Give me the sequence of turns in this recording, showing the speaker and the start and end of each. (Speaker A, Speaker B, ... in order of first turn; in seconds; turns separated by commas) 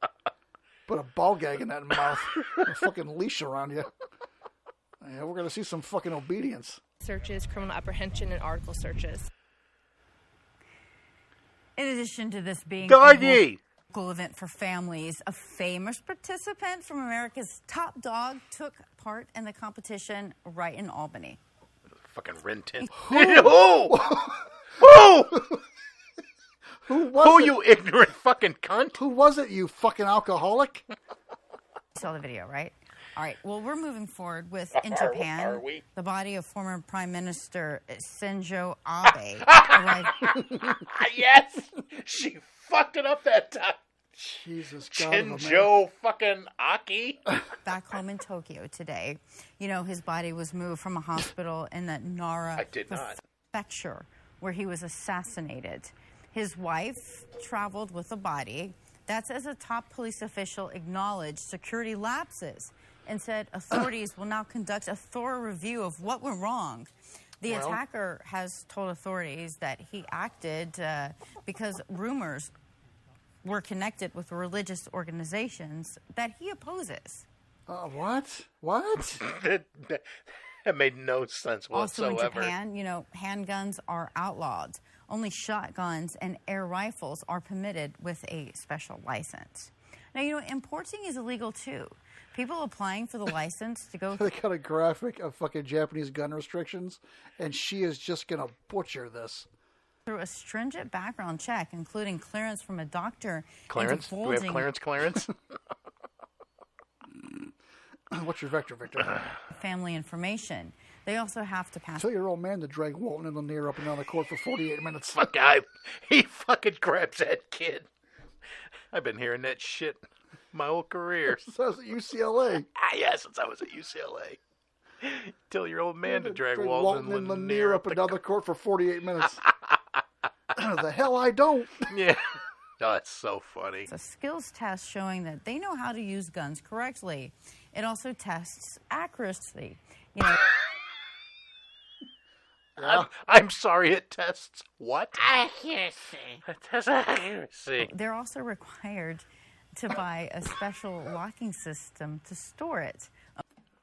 Speaker A: 0.9-3.9, Speaker A: 5.0-6.8, Speaker B: 7.0-9.3, Speaker C: 11.8-21.4, Speaker D: 12.8-13.6, Speaker D: 22.1-24.1, Speaker A: 22.9-25.6, Speaker D: 24.8-25.4, Speaker A: 26.8-27.6, Speaker D: 27.1-29.0, Speaker A: 29.0-30.9, Speaker C: 31.9-40.4, Speaker D: 34.7-35.8, Speaker D: 39.5-43.8, Speaker A: 44.2-45.7, Speaker D: 44.9-47.2, Speaker C: 47.6-66.9, Speaker D: 52.6-53.2, Speaker C: 67.4-72.5, Speaker A: 67.4-67.8, Speaker C: 73.4-77.2, Speaker A: 77.7-79.2, Speaker D: 79.2-80.0, Speaker D: 80.7-82.5, Speaker C: 81.7-94.3, Speaker A: 94.2-99.5, Speaker C: 100.0-104.7, Speaker D: 103.7-105.3, Speaker A: 107.2-107.5, Speaker A: 108.1-109.2, Speaker C: 109.5-112.1, Speaker A: 112.0-115.2, Speaker D: 115.2-117.8, Speaker D: 118.9-121.4, Speaker A: 121.3-122.7, Speaker D: 122.8-124.4, Speaker D: 125.0-128.1, Speaker A: 126.0-129.4, Speaker A: 130.5-131.9, Speaker D: 131.9-132.2, Speaker D: 132.8-133.9, Speaker C: 133.9-140.4, Speaker A: 142.8-143.1, Speaker D: 142.8-147.9, Speaker C: 147.8-153.1